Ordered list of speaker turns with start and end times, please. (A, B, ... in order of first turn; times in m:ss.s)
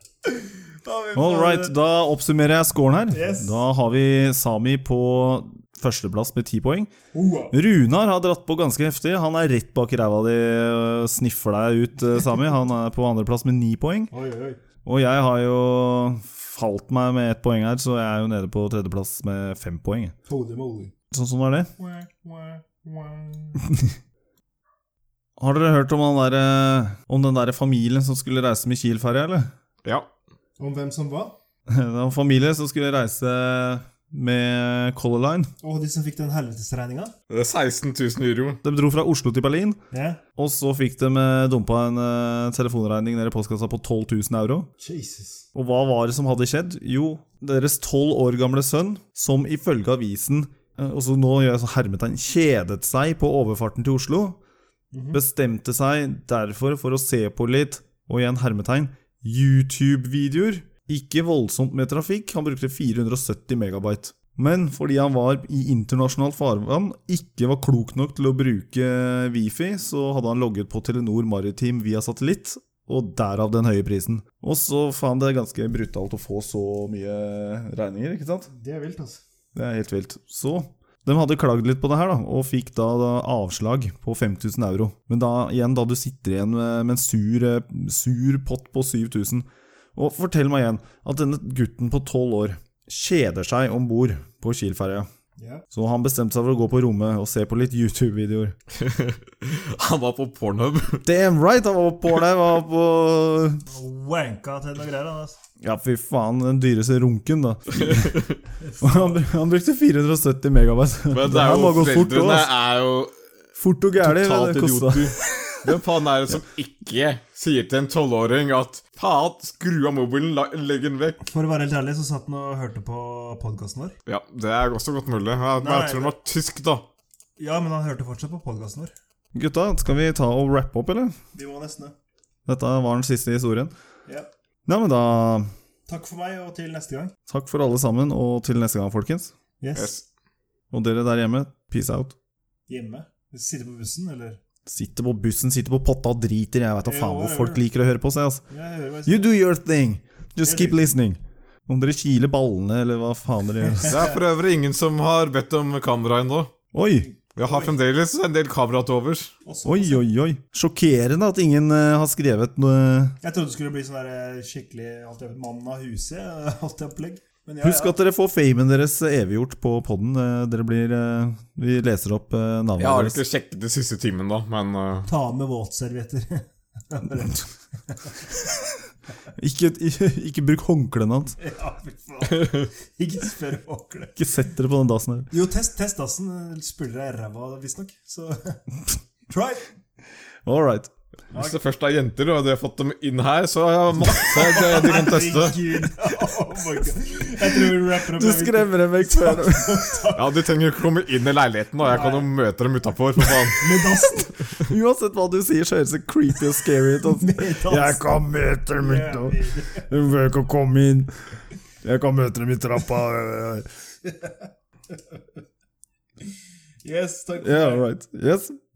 0:00.2-0:01.7 A
0:01.1-0:06.9 B
0:03.1-0:03.5 A
0:07.1-0:07.5 A
0:07.5-0:14.1 B
0:14.1-0:14.6 A
0:14.8-0:20.1 B
0:20.3-0:20.9 A
0:21.1-0:21.7 B
0:21.8-0:23.6 A
0:25.4-0:29.5 B
0:30.6-0:31.4 A
0:31.7-0:35.5 B
0:35.6-0:37.1 A
0:37.3-0:38.6 C
0:38.6-0:39.8 B
0:39.9-0:40.2 A
0:40.4-0:44.7 B
0:44.8-0:45.4 A
0:45.5-0:54.4 B
0:54.9-0:55.2 A
0:55.1-1:18.5 B
1:18.5-1:19.2 A
1:19.5-1:35.1 B
1:35.4-1:35.6 A
1:35.7-1:38.6 B
1:38.7-1:41.0 C
1:41.0-1:43.6 B
1:43.7-1:45.4 A
1:45.6-1:48.2 B
1:47.8-1:48.3 C
1:48.6-1:49.2 A
1:48.8-1:52.5 B
1:51.1-1:53.1 C
1:53.6-1:55.6 B
1:54.0-2:01.2 C
2:01.3-2:03.9 A
2:04.0-2:06.8 C
2:05.6-2:06.1 A
2:07.4-2:08.9 A
2:09.3-2:11.2 B
2:11.3-2:11.9 A
2:12.5-2:13.7 B
2:14.6-2:15.5 B
2:15.9-2:17.1 A
2:17.3-2:19.3 B
2:19.6-2:19.9 A
2:19.7-2:20.0 C
2:20.7-2:22.1 B
2:22.7-2:24.4 A
2:24.6-2:28.4 B
2:26.8-2:27.6 A
2:28.5-2:29.3 A
2:29.0-2:34.0 B
2:30.4-2:30.9 A
2:33.8-2:34.1 A
2:33.9-2:36.5 C
2:36.7-2:37.1 B
2:37.4-2:39.3 C
2:37.4-2:37.7 A
2:39.4-2:40.0 A
2:39.6-2:43.1 B
2:43.2-2:48.0 A
2:47.6-2:53.2 B
2:52.8-2:55.1 C
2:55.1-2:58.5 A
2:59.4-3:01.4 B
3:01.4-3:04.1 A
3:02.4-3:02.6 C
3:04.2-3:05.3 B
3:05.3-3:08.6 A
3:09.3-3:09.7 A
3:10.4-3:10.9 B
3:11.3-3:11.6 A
3:11.3-3:15.8 C
3:14.0-3:20.3 A
3:18.1-3:20.0 B
3:20.1-3:23.6 C
3:21.8-3:22.3 A
3:23.6-3:24.4 A
3:24.0-3:31.1 B
3:27.0-3:28.1 A
3:28.8-3:29.9 A
3:31.8-3:33.7 B
3:34.0-3:34.4 A
3:36.8-3:37.9 A
3:37.4-3:38.6 B